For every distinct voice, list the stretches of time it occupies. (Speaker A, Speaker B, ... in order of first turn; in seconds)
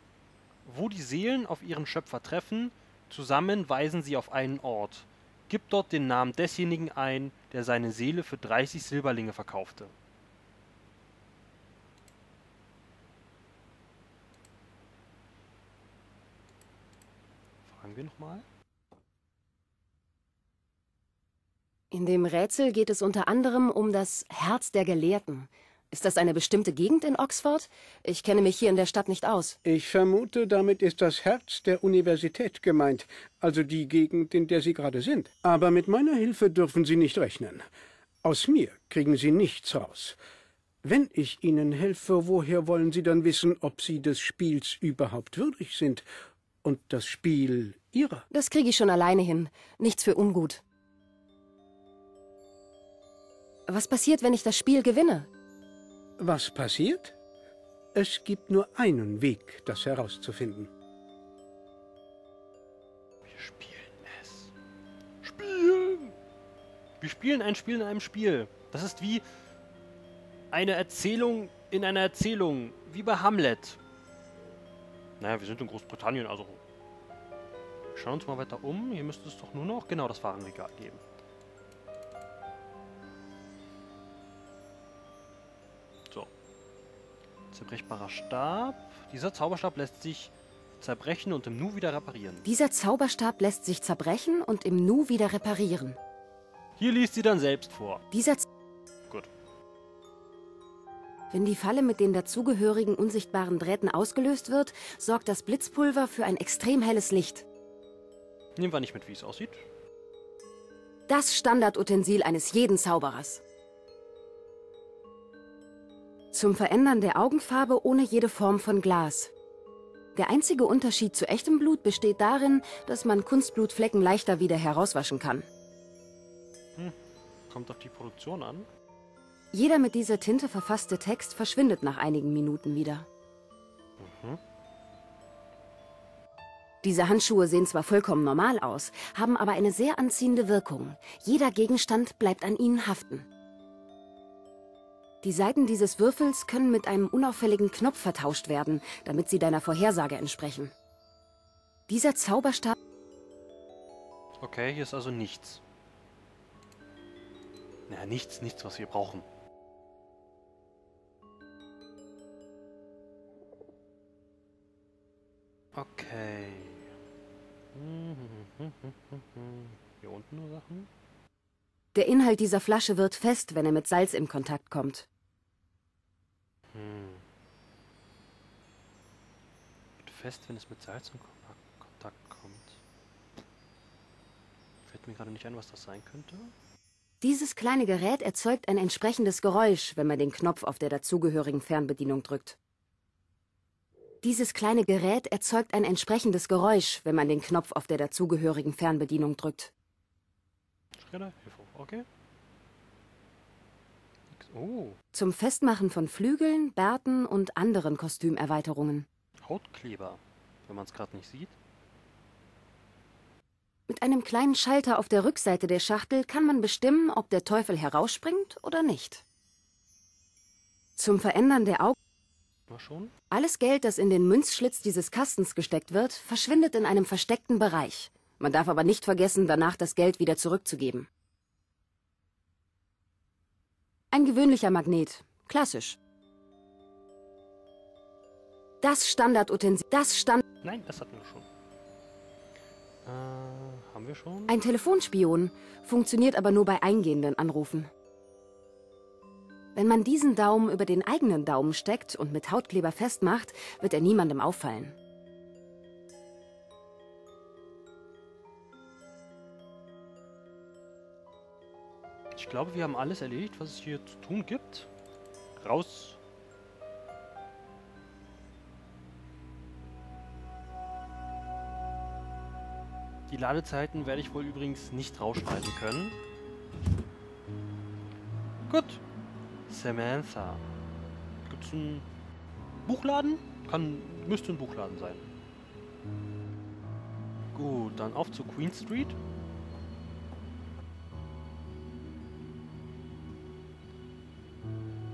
Speaker A: 0.6-9.9, 17.6-18.4, 63.2-64.5, 65.2-66.1, 67.0-69.2, 70.5-73.8, 75.2-76.6, 77.9-81.0, 87.5-92.5, 96.8-98.0, 108.6-109.6, 127.5-128.7, 134.0-134.4, 154.4-155.6, 157.9-159.2, 165.7-166.9, 167.7-170.9, 176.7-177.2, 180.0-182.8, 184.8-186.5, 201.0-202.1, 204.3-205.0, 209.4-211.6, 222.7-223.1, 240.6-241.5, 243.0-244.6, 262.3-264.9, 265.6-266.2, 273.3-276.2, 278.7-279.0, 279.7-280.6, 281.4-282.1, 282.9-285.3, 287.5-289.2
Speaker B: 21.9-29.6, 48.3-50.6, 53.7-55.3, 92.5-96.0, 98.1-98.5, 101.3-107.5, 111.1-113.4, 116.3-119.3, 120.2-125.4, 129.5-133.1, 136.8-143.3, 145.2-150.7, 151.9-152.8, 171.9-175.1, 187.2-192.6, 194.2-199.7, 205.1-209.1, 213.9-219.2, 221.0-221.9, 223.3-231.1, 234.1-236.0, 238.8-240.4, 244.5-247.9, 249.7-254.9
Speaker C: 29.6-37.6, 38.2-40.2, 40.8-46.0, 46.6-48.2, 56.2-57.1, 57.9-60.7